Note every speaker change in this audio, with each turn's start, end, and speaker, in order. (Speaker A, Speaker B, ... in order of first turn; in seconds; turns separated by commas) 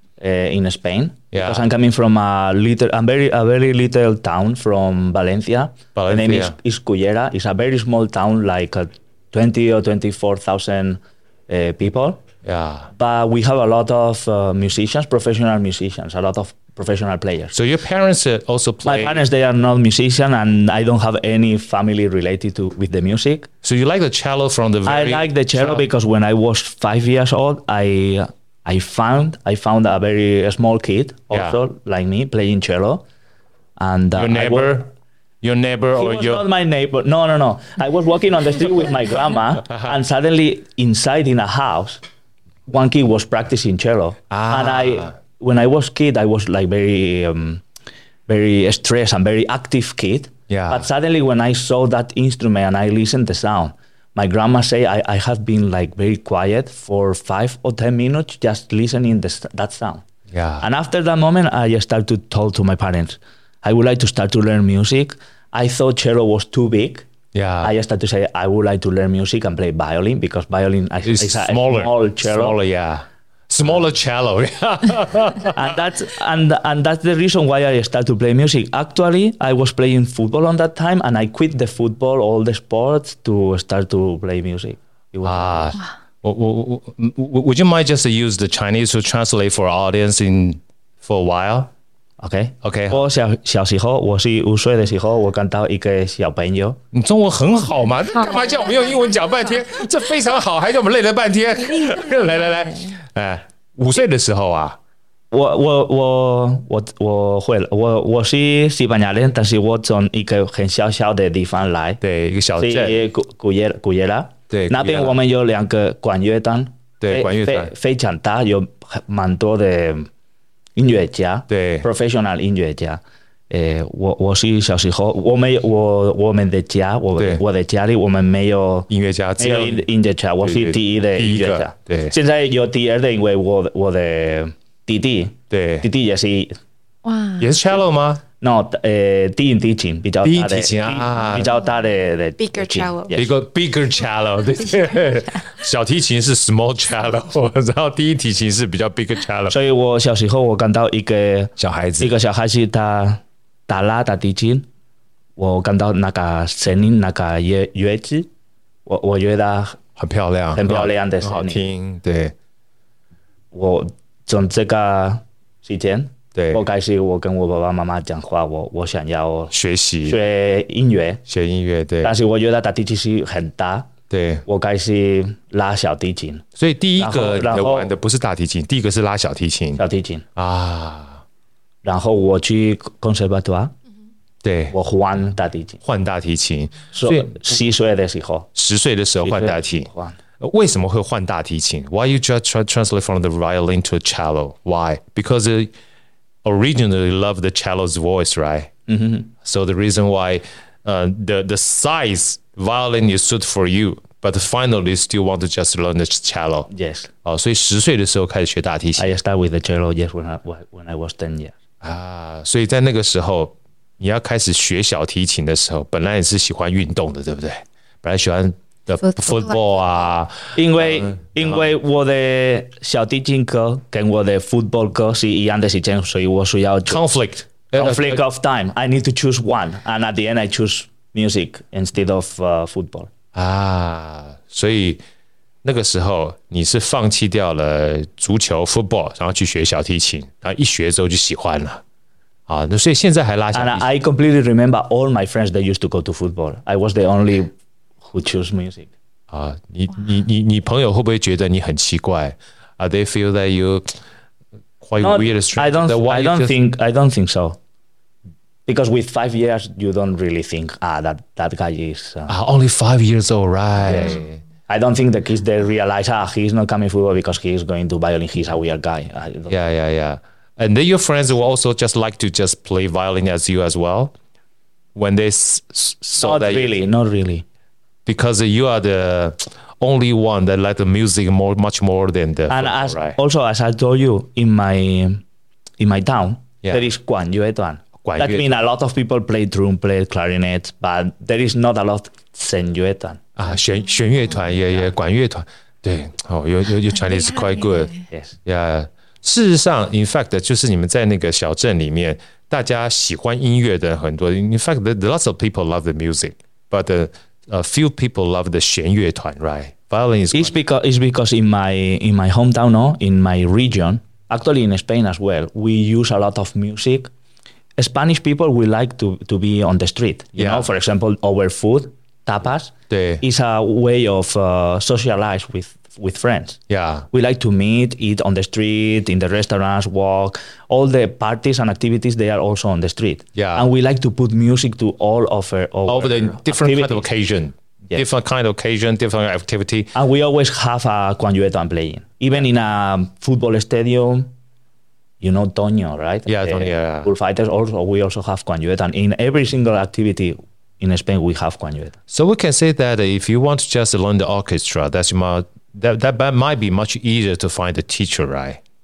Speaker A: 0.2-12.2, Speaker B: 1.3-1.7, Speaker B: 5.9-6.5, Speaker B: 12.4-12.9, Speaker A: 12.9-17.5, Speaker B: 17.5-19.2, Speaker A: 18.8-23.5, Speaker B: 23.6-25.8, Speaker A: 24.8-33.0, Speaker B: 31.3-31.6, Speaker A: 33.8-34.9, Speaker B: 34.1-34.9, Speaker B: 35.4-36.4, Speaker A: 35.9-42.0, Speaker A: 42.7-47.6, Speaker B: 44.3-45.1, Speaker A: 48.3-60.0, Speaker B: 50.5-50.9, Speaker B: 60.3-60.6, Speaker A: 60.6-67.1, Speaker B: 67.3-67.7, Speaker A: 67.6-72.6, Speaker B: 71.0-75.6, Speaker A: 75.5-85.8, Speaker B: 85.2-91.7, Speaker A: 92.2-96.8, Speaker B: 92.6-93.0, Speaker B: 96.9-104.8, Speaker A: 105.3-112.0, Speaker B: 112.0-113.0, Speaker A: 112.6-120.1, Speaker B: 114.5-115.2, Speaker B: 117.0-117.7, Speaker A: 120.8-136.6, Speaker B: 121.5-121.8, Speaker B: 128.9-129.9, Speaker B: 130.4-132.1, Speaker B: 135.5-135.9, Speaker C: 137.0-137.4, Speaker B: 137.4-138.2, Speaker A: 138.4-143.3, Speaker B: 140.2-141.5, Speaker C: 142.4-143.2, Speaker B: 143.1-149.6, Speaker A: 149.5-154.7, Speaker B: 151.6-152.1, Speaker A: 155.4-158.3, Speaker A: 158.8-159.8, Speaker B: 160.0-162.3, Speaker A: 160.5-161.6, Speaker A: 163.5-169.5, Speaker B: 166.3-166.6, Speaker B: 169.5-170.2, Speaker A: 170.0-171.2, Speaker B: 171.3-172.1, Speaker A: 172.0-173.9, Speaker B: 174.1-174.4, Speaker A: 174.4-176.4, Speaker B: 176.6-179.8, Speaker A: 177.0-177.9, Speaker A: 179.8-180.2, Speaker B: 180.3-181.2, Speaker A: 181.8-183.7, Speaker B: 184.4-184.7, Speaker A: 184.7-185.8, Speaker B: 185.8-187.4, Speaker A: 186.9-188.5, Speaker B: 188.5-189.9, Speaker A: 189.2-190.2, Speaker B: 190.4-195.7, Speaker B: 196.4-198.7, Speaker A: 198.9-199.3, Speaker B: 199.4-206.7, Speaker A: 206.7-207.1, Speaker B: 207.2-209.1, Speaker A: 208.9-211.5, Speaker B: 211.8-221.6, Speaker C: 219.0-219.7, Speaker A: 220.5-227.0, Speaker B: 226.8-228.2, Speaker A: 227.7-233.1, Speaker B: 233.3-235.0, Speaker B: 235.6-241.8, Speaker B: 242.5-243.8, Speaker A: 243.5-248.9, Speaker B: 249.3-253.9, Speaker B: 254.8-256.5, Speaker A: 255.0-257.6, Speaker A: 258.6-262.4, Speaker B: 262.3-264.4, Speaker A: 263.8-269.5, Speaker B: 269.5-274.1, Speaker B: 274.9-276.7, Speaker A: 276.2-277.4, Speaker B: 278.1-283.2, Speaker A: 282.5-285.2, Speaker A: 285.8-293.5, Speaker B: 288.0-288.5, Speaker B: 293.4-297.9, Speaker C: 297.3-298.0, Speaker A: 298.1-298.4, Speaker B: 298.4-310.5, Speaker A: 310.3-317.1, Speaker A: 317.8-326.6, Speaker B: 320.4-320.7, Speaker B: 322.9-323.2, Speaker B: 326.7-327.1, Speaker A: 327.1-337.1, Speaker B: 333.3-333.6, Speaker B: 335.9-339.9, Speaker A: 339.9-344.3, Speaker A: 345.2-352.0, Speaker B: 346.3-347.1, Speaker B: 352.1-358.6